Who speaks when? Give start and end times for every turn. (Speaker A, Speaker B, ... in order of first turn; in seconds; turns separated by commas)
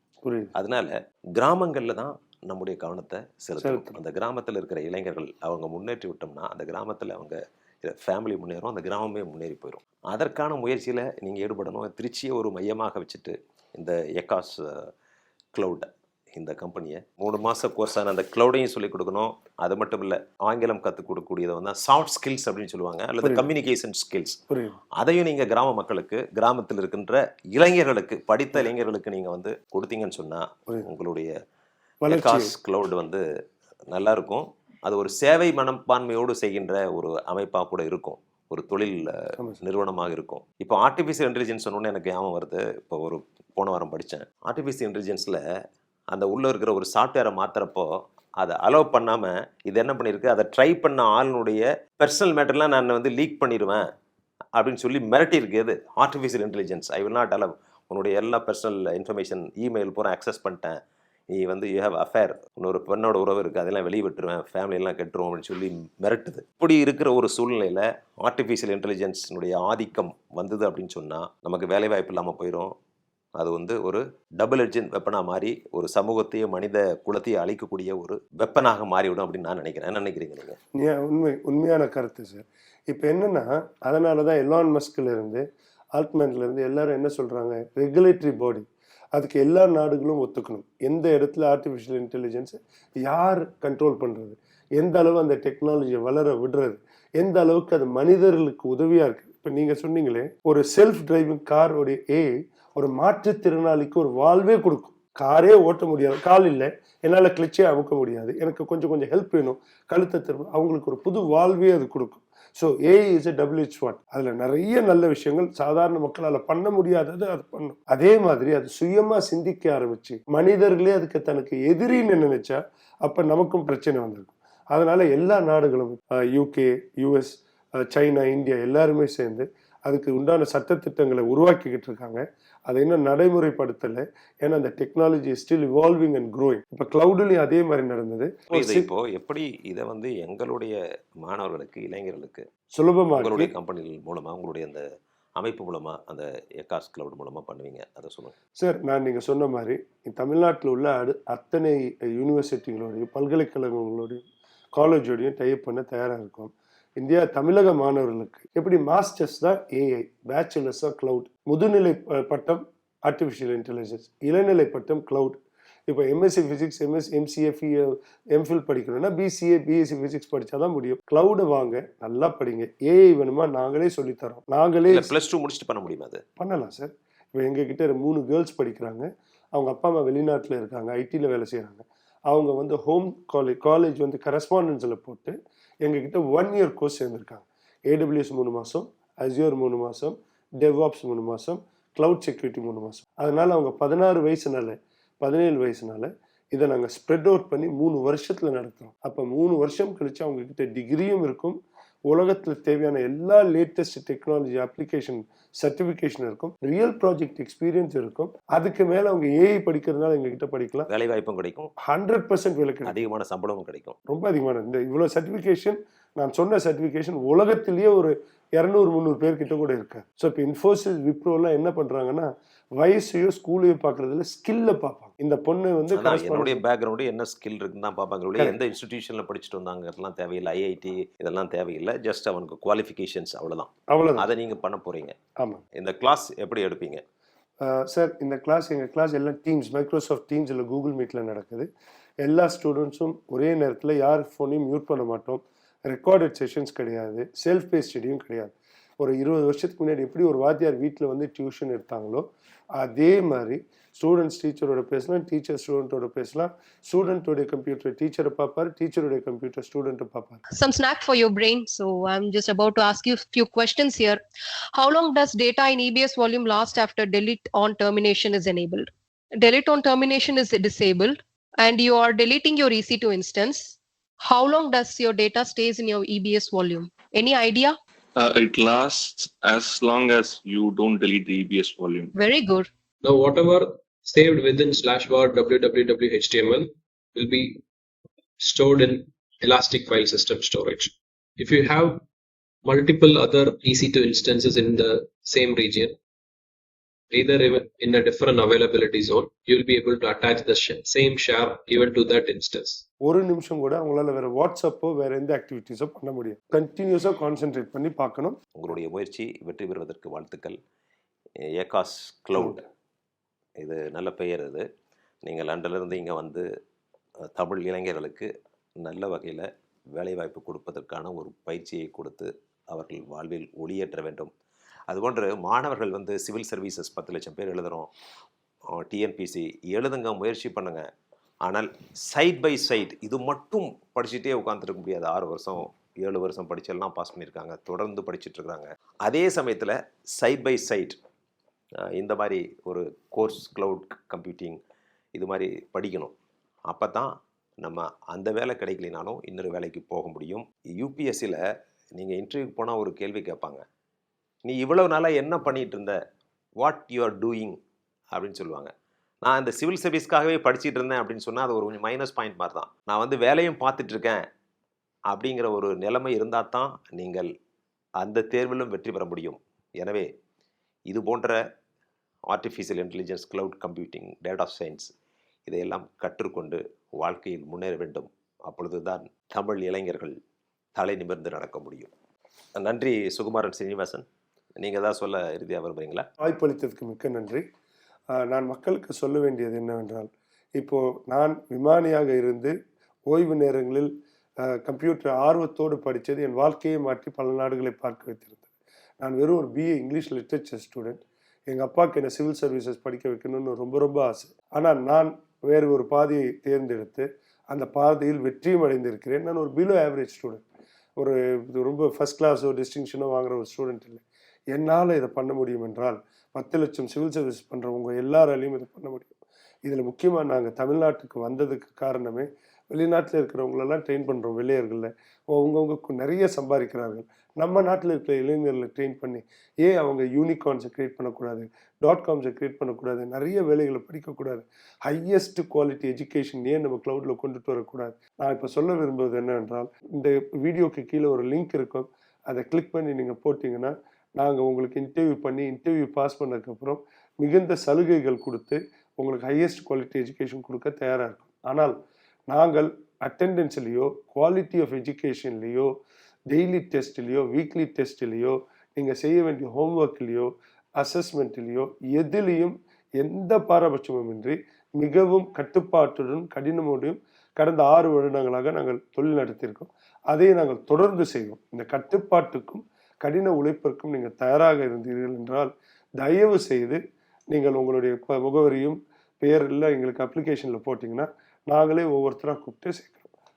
Speaker A: 0.2-0.5, Speaker B: 0.5-14.9, Speaker A: 3.6-4.0, Speaker B: 15.5-24.4, Speaker A: 23.2-23.4, Speaker A: 24.5-24.8, Speaker B: 24.9-31.3, Speaker A: 32.0-32.5, Speaker B: 32.1-33.2, Speaker B: 33.9-45.4, Speaker B: 46.1-53.9, Speaker B: 54.5-60.8, Speaker B: 61.3-72.7, Speaker B: 73.4-80.6, Speaker A: 80.7-138.9, Speaker B: 138.5-142.4, Speaker A: 142.7-143.5, Speaker B: 143.1-144.8, Speaker B: 145.4-148.3, Speaker A: 148.6-175.1, Speaker B: 174.9-176.2, Speaker A: 176.4-210.9, Speaker B: 210.9-211.7, Speaker A: 211.8-212.9, Speaker B: 212.8-214.0, Speaker A: 214.1-226.6, Speaker B: 225.9-235.2, Speaker A: 233.9-234.2, Speaker A: 235.3-235.6, Speaker B: 235.7-237.0, Speaker A: 237.6-241.7, Speaker A: 242.2-260.4, Speaker C: 260.5-264.2, Speaker C: 264.7-277.8, Speaker D: 278.2-282.1, Speaker C: 282.1-282.7, Speaker E: 283.0-287.6, Speaker E: 288.4-292.0, Speaker E: 292.6-295.9, Speaker E: 297.1-302.8, Speaker A: 303.0-308.4, Speaker B: 308.5-310.6, Speaker B: 311.4-312.6, Speaker A: 312.3-312.6, Speaker B: 313.6-314.6, Speaker B: 315.2-316.4, Speaker B: 317.3-324.3, Speaker B: 324.9-327.9, Speaker B: 328.7-330.9, Speaker B: 331.4-341.0, Speaker B: 341.9-344.6, Speaker B: 345.1-346.1, Speaker B: 346.7-351.4, Speaker B: 351.9-353.6, Speaker B: 354.4-356.0, Speaker B: 356.6-357.6, Speaker B: 358.1-358.7, Speaker B: 359.2-364.2, Speaker B: 365.1-367.3, Speaker B: 368.0-370.1, Speaker B: 370.9-371.4, Speaker B: 372.3-374.9, Speaker B: 375.5-380.1, Speaker B: 380.8-381.9, Speaker B: 382.6-384.0, Speaker B: 384.6-386.1, Speaker A: 386.2-387.4, Speaker A: 388.1-392.5, Speaker A: 393.1-398.4, Speaker A: 399.0-410.4, Speaker A: 410.9-414.0, Speaker A: 414.5-451.7, Speaker A: 452.3-455.7, Speaker A: 456.3-476.8, Speaker A: 477.3-483.1